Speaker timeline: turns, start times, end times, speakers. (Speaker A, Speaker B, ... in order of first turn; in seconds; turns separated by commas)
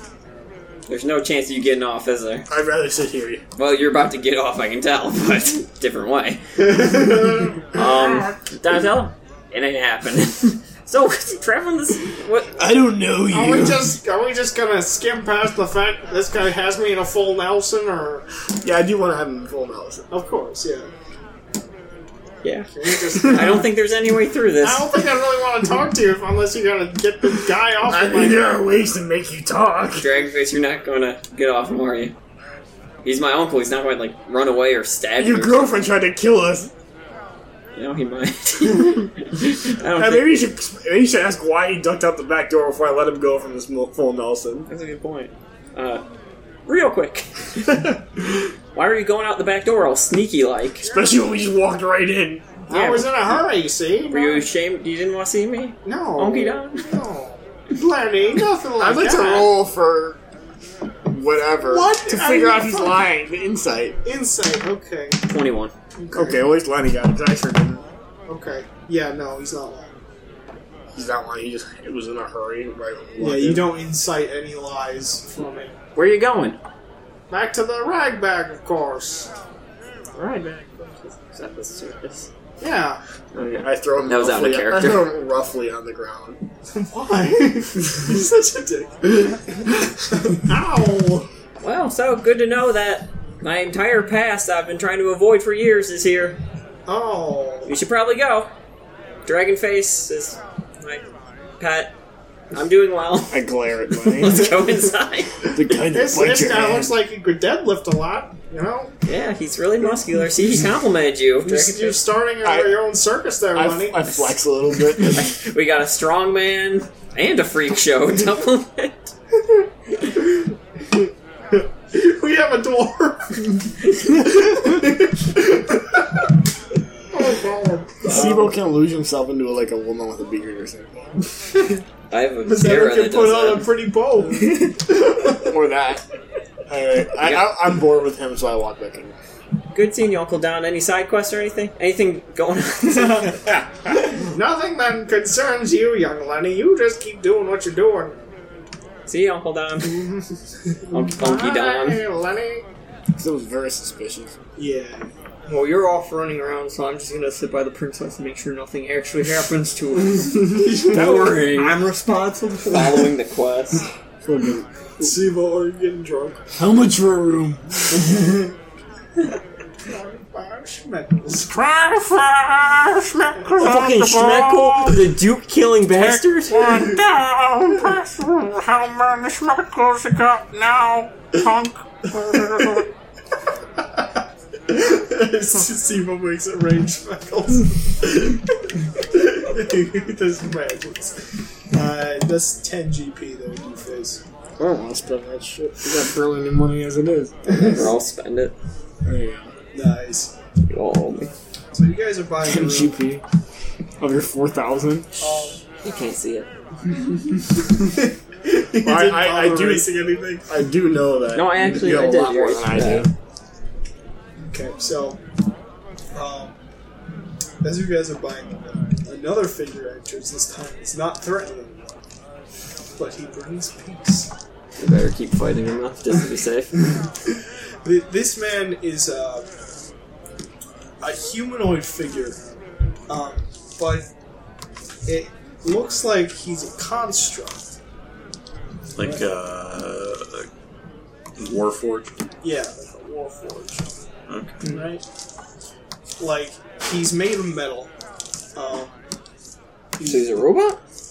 Speaker A: 0.9-2.5, Speaker B: 2.5-3.4, Speaker A: 3.6-7.0, Speaker C: 6.7-7.5, Speaker A: 7.7-12.6, Speaker B: 12.6-14.0, Speaker C: 13.3-18.3, Speaker B: 18.6-20.1, Speaker C: 20.1-20.9, Speaker A: 22.4-24.9, Speaker C: 22.7-23.7, Speaker C: 24.6-28.6, Speaker B: 27.9-30.2, Speaker A: 30.0-32.1, Speaker A: 33.0-35.8, Speaker B: 35.2-36.7, Speaker A: 37.7-40.4, Speaker B: 40.0-44.7, Speaker A: 44.7-46.0, Speaker A: 46.6-48.0, Speaker A: 48.7-50.9, Speaker C: 50.9-51.1, Speaker B: 50.9-52.6, Speaker C: 52.7-54.5, Speaker A: 52.7-53.4, Speaker A: 54.1-56.9, Speaker C: 55.8-59.5, Speaker B: 58.8-60.2, Speaker B: 61.1-64.0, Speaker C: 61.6-63.0, Speaker C: 64.0-65.2, Speaker A: 65.3-65.7, Speaker C: 66.0-66.4, Speaker B: 66.1-67.8, Speaker C: 68.3-70.0, Speaker B: 70.9-73.8, Speaker C: 73.2-75.8, Speaker A: 75.9-76.6, Speaker C: 77.3-79.3, Speaker A: 80.1-82.3, Speaker C: 82.6-83.0, Speaker B: 83.3-86.4, Speaker A: 84.1-85.1, Speaker C: 86.7-91.3, Speaker A: 91.6-96.4, Speaker C: 96.9-97.7, Speaker A: 97.7-98.5, Speaker A: 99.2-101.0, Speaker A: 101.6-101.9, Speaker A: 102.5-105.6, Speaker B: 103.3-104.6, Speaker B: 105.5-106.9, Speaker C: 105.9-108.9, Speaker A: 109.0-112.0, Speaker C: 111.4-114.1, Speaker B: 112.4-112.8, Speaker B: 113.5-115.3, Speaker A: 115.0-119.1, Speaker C: 121.5-126.2, Speaker C: 127.1-128.3, Speaker B: 128.1-131.2, Speaker A: 128.1-128.5, Speaker A: 132.1-133.8, Speaker C: 132.4-135.5, Speaker B: 135.3-136.0, Speaker B: 136.7-139.2, Speaker A: 137.2-137.5, Speaker A: 139.7-143.6, Speaker C: 143.0-143.3, Speaker C: 144.0-148.2, Speaker A: 149.1-150.1, Speaker C: 149.8-152.7, Speaker A: 150.9-152.0, Speaker B: 153.1-154.4, Speaker C: 154.6-155.1, Speaker D: 155.4-162.2, Speaker C: 160.2-161.4, Speaker A: 160.8-161.8, Speaker A: 162.7-163.8, Speaker B: 164.2-165.0, Speaker C: 165.0-166.4, Speaker B: 166.6-168.0, Speaker C: 168.0-168.5, Speaker C: 169.8-171.5, Speaker E: 171.5-175.0, Speaker C: 173.4-173.8, Speaker A: 173.6-176.7, Speaker E: 175.9-182.9, Speaker C: 182.3-182.8, Speaker C: 183.8-184.0, Speaker C: 184.7-188.4, Speaker C: 189.1-194.2, Speaker B: 194.6-197.6, Speaker A: 197.4-198.5, Speaker B: 199.0-199.5, Speaker C: 199.7-200.3, Speaker A: 200.6-201.3, Speaker C: 201.7-203.0, Speaker B: 202.4-203.2, Speaker B: 204.0-205.2, Speaker C: 205.2-205.6, Speaker A: 205.8-206.5, Speaker C: 208.4-210.3, Speaker B: 208.8-213.1, Speaker A: 211.3-213.1, Speaker C: 214.5-215.2, Speaker C: 216.1-216.6, Speaker C: 217.6-221.9, Speaker C: 222.9-224.3, Speaker A: 224.8-226.8, Speaker C: 226.9-229.5, Speaker C: 231.0-232.4, Speaker C: 233.1-234.1, Speaker C: 235.1-237.7, Speaker E: 238.9-240.5, Speaker C: 239.0-239.2, Speaker E: 241.4-242.1, Speaker C: 242.4-243.9, Speaker E: 244.3-244.7, Speaker C: 244.6-245.0, Speaker C: 246.2-247.9, Speaker C: 248.5-249.0, Speaker C: 250.0-250.3, Speaker A: 250.0-250.8